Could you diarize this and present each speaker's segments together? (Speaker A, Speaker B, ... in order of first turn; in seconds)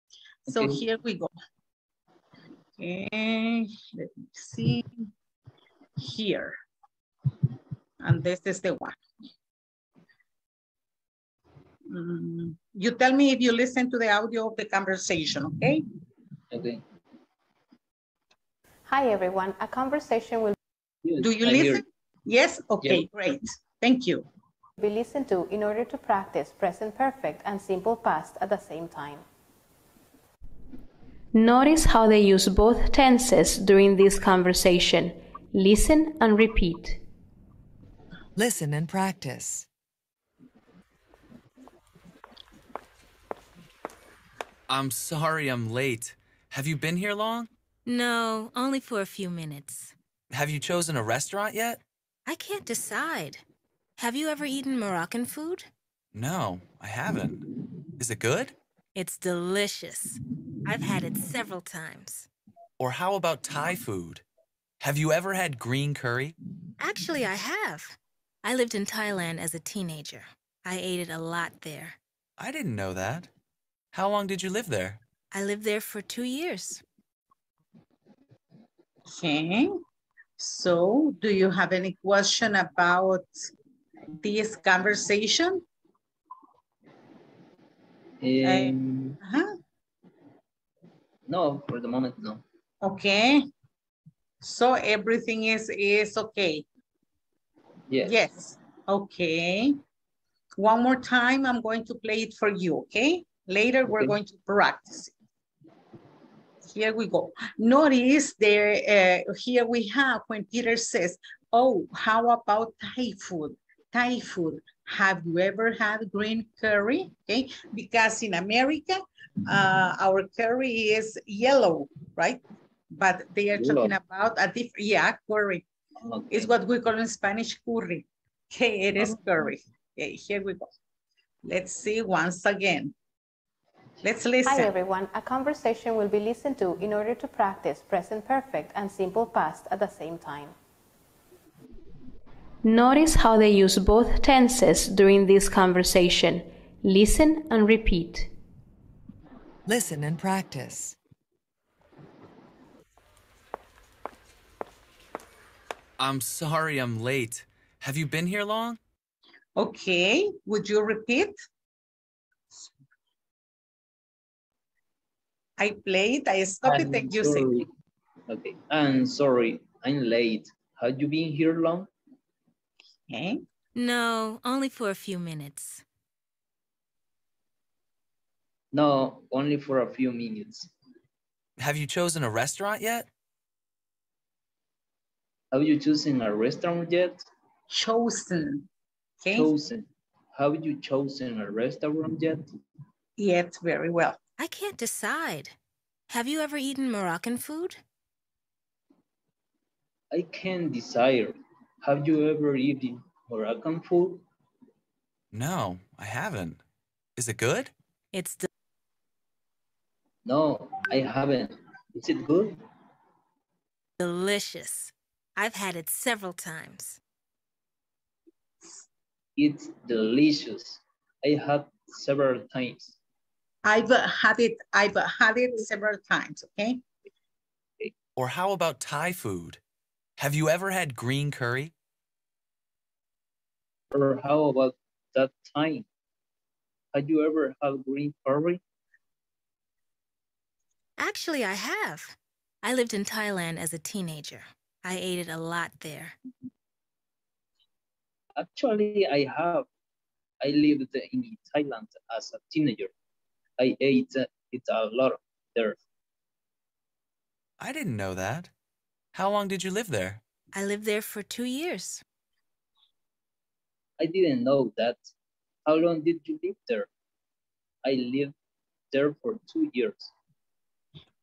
Speaker A: 0.5-0.8, 16.5-16.8, 21.0-21.8, 88.2-89.2, 91.3-92.4, 97.9-98.1, 123.5-123.9, 126.0-126.5, 166.6-167.7, 168.3-171.9, 178.7-180.7, 185.5-187.2, 189.3-192.5, 200.1-204.2, 210.2-212.6, 219.4-222.9, 233.9-235.9, 236.9-238.6, 248.4-249.7, 250.4-252.9, 253.6-255.8, 264.0-265.1, 265.6-266.9, 267.8-268.3, 268.9-270.1
Speaker B: 0.5-1.3, 2.8-5.1, 6.0-6.6, 8.0-9.0, 11.9-15.8, 21.2-24.2, 79.1-79.8, 80.4-83.5, 84.2-85.6, 88.4-89.5, 92.8-93.4, 94.4-96.6, 98.0-99.8, 100.6-105.1, 106.6-125.7, 126.3-130.7, 131.4-132.9, 134.0-134.7, 159.6-161.4, 165.6-167.6, 173.1-173.4, 187.7-188.7, 189.2-189.5, 193.2-194.2, 223.6-226.8
Speaker C: 18.9-20.5, 24.8-29.2, 31.3-37.0, 134.4-140.5, 142.6-148.3
Speaker D: 38.4-39.7, 149.7-151.0
Speaker E: 44.7-47.5, 50.3-51.8, 56.1-57.4, 58.0-58.5, 62.8-64.2, 64.8-66.3, 72.4-73.3, 73.9-75.0, 156.0-158.8, 181.6-183.1, 205.3-206.6, 207.2-207.7, 228.2-229.6, 230.2-231.7, 257.6-258.5, 259.1-260.2
Speaker F: 47.9-49.9, 52.2-53.4, 54.0-55.7, 58.9-62.3, 66.8-72.0, 75.3-76.8, 173.8-175.8, 194.4-195.6, 196.1-197.8, 208.1-208.5, 214.0-217.0, 241.0-246.2, 260.5-262.0